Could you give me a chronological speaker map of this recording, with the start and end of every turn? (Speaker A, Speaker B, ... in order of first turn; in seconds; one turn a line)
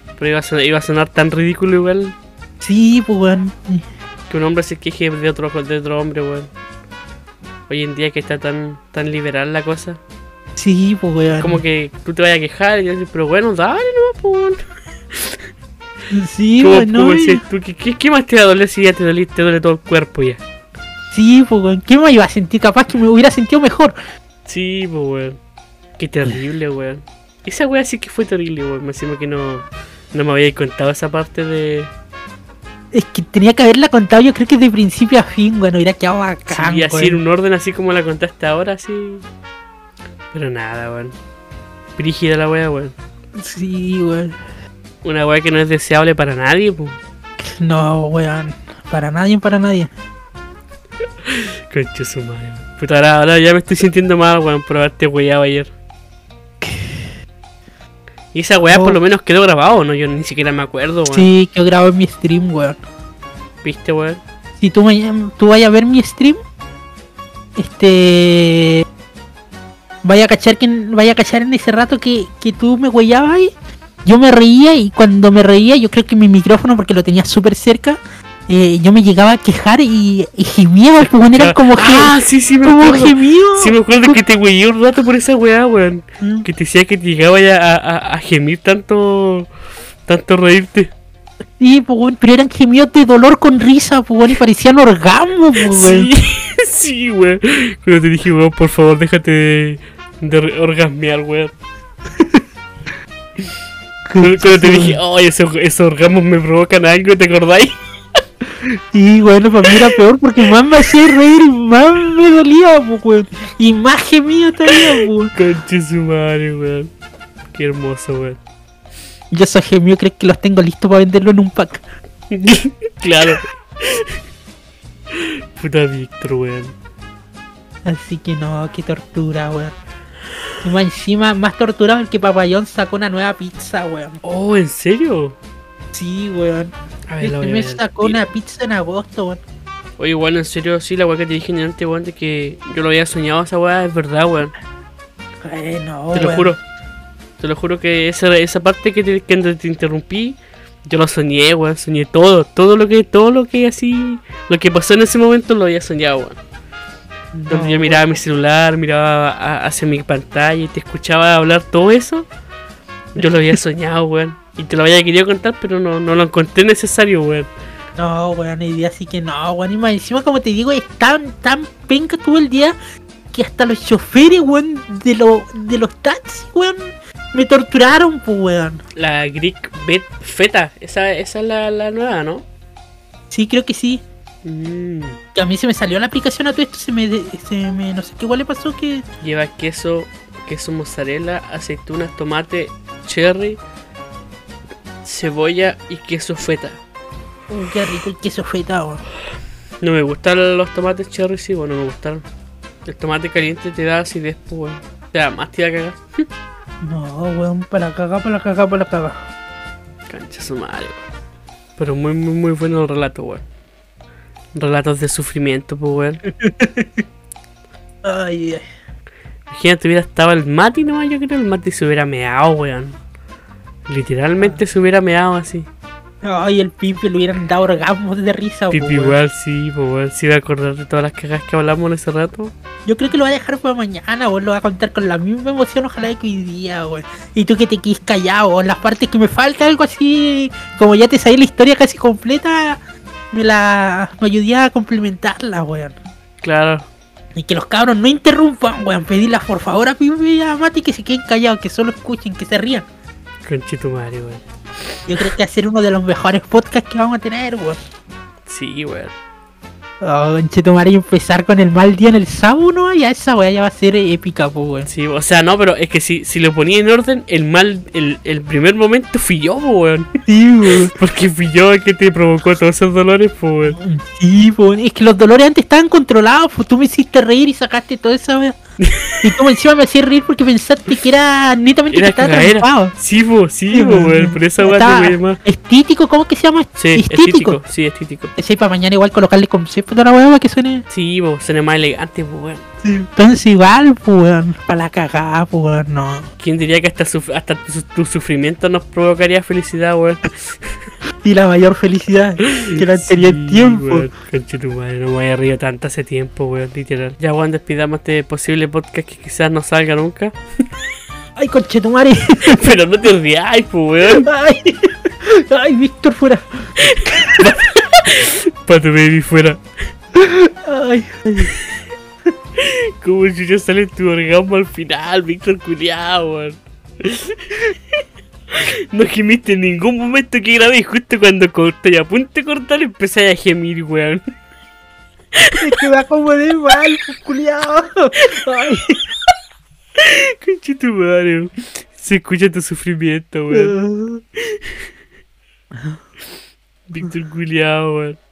Speaker A: 0.2-2.1
Speaker B: 2.6-3.9
Speaker A: 4.3-6.5
Speaker A: 7.7-10.0
Speaker B: 10.6-11.6
Speaker A: 11.4-15.5
Speaker B: 16.1-17.4
Speaker A: 16.6-20.4
Speaker B: 21.1-23.9
Speaker A: 24.5-25.4
Speaker A: 26.0-31.9
Speaker B: 32.9-37.2
Speaker A: 36.5-39.2
Speaker A: 40.3-41.2
Speaker A: 42.0-43.0
Speaker B: 43.4-44.4
Speaker A: 45.0-47.0
Speaker B: 47.4-49.9
Speaker A: 51.2-55.7
Speaker B: 56.6-57.0
Speaker A: 58.3-61.3
Speaker B: 58.6-59.0
Speaker B: 61.1-62.8
Speaker A: 63.6-64.2
Speaker B: 64.6-66.4
Speaker B: 67.6-68.8
Speaker B: 70.0-73.5
Speaker B: 74.0-84.2
Speaker A: 81.3-89.5
Speaker B: 86.2-86.5
Speaker A: 90.1-90.9
Speaker B: 91.6-96.1
Speaker A: 95.7-101.5
Speaker B: 104.1-105.0
Speaker A: 104.2-107.8
Speaker B: 108.7-115.3
Speaker A: 115.3-116.9
Speaker A: 117.5-118.4
Speaker B: 119.3-121.8
Speaker A: 122.3-124.2
Speaker A: 125.1-126.7
Speaker B: 127.8-129.8
Speaker B: 130.6-134.2
Speaker A: 134.2-135.4
Speaker B: 135.9-139.4
Speaker A: 137.1-138.2
Speaker A: 140.0-144.5
Speaker B: 145.4-146.6
Speaker A: 146.1-146.6
Speaker A: 147.4-156.4
Speaker B: 157.4-158.2
Speaker A: 157.4-162.3
Speaker A: 163.2-167.5
Speaker B: 168.0-172.8
Speaker B: 173.3-178.8
Speaker A: 178.9-182.4
Speaker B: 183.3-184.0
Speaker A: 184.4-185.2
Speaker B: 185.3-189.1
Speaker A: 189.2-193.6
Speaker A: 195.0-196.8
Speaker B: 197.5-199.0
Speaker A: 199.8-202.2
Speaker A: 202.8-206.3
Speaker B: 206.8-209.2
Speaker A: 210.1-211.1
Speaker A: 211.8-213.4
Speaker A: 214.5-216.2
Speaker B: 216.3-217.0
Speaker B: 218.0-218.6
Speaker A: 219.5-223.0
Speaker A: 223.9-225.7
Speaker B: 226.2-229.2
Speaker A: 228.7-232.5
Speaker B: 232.9-242.8
Speaker B: 243.3-245.9
Speaker A: 246.4-246.9
Speaker B: 247.4-252.9
Speaker A: 253.4-254.4
Speaker B: 255.1-257.8
Speaker A: 258.5-259.1
Speaker B: 260.0-264.9
Speaker A: 264.9-270.1
Speaker B: 270.3-270.9
Speaker A: 270.9-273.8
Speaker B: 273.7-278.6
Speaker A: 278.8-279.3
Speaker B: 279.2-282.9
Speaker A: 281.9-285.4
Speaker B: 283.7-287.6
Speaker A: 286.8-288.3
Speaker B: 288.4-290.8
Speaker A: 290.9-292.6
Speaker B: 292.8-296.3
Speaker A: 296.4-300.9
Speaker B: 301.2-304.1
Speaker A: 302.6-310.4
Speaker B: 311.4-312.8
Speaker A: 312.5-314.3
Speaker B: 314.1-317.5
Speaker A: 316.9-319.6
Speaker B: 320.1-321.5
Speaker A: 322.6-327.5
Speaker A: 328.5-334.2
Speaker B: 335.6-339.0
Speaker A: 340.0-343.8
Speaker B: 343.5-344.2
Speaker A: 344.4-344.8
Speaker A: 346.9-348.2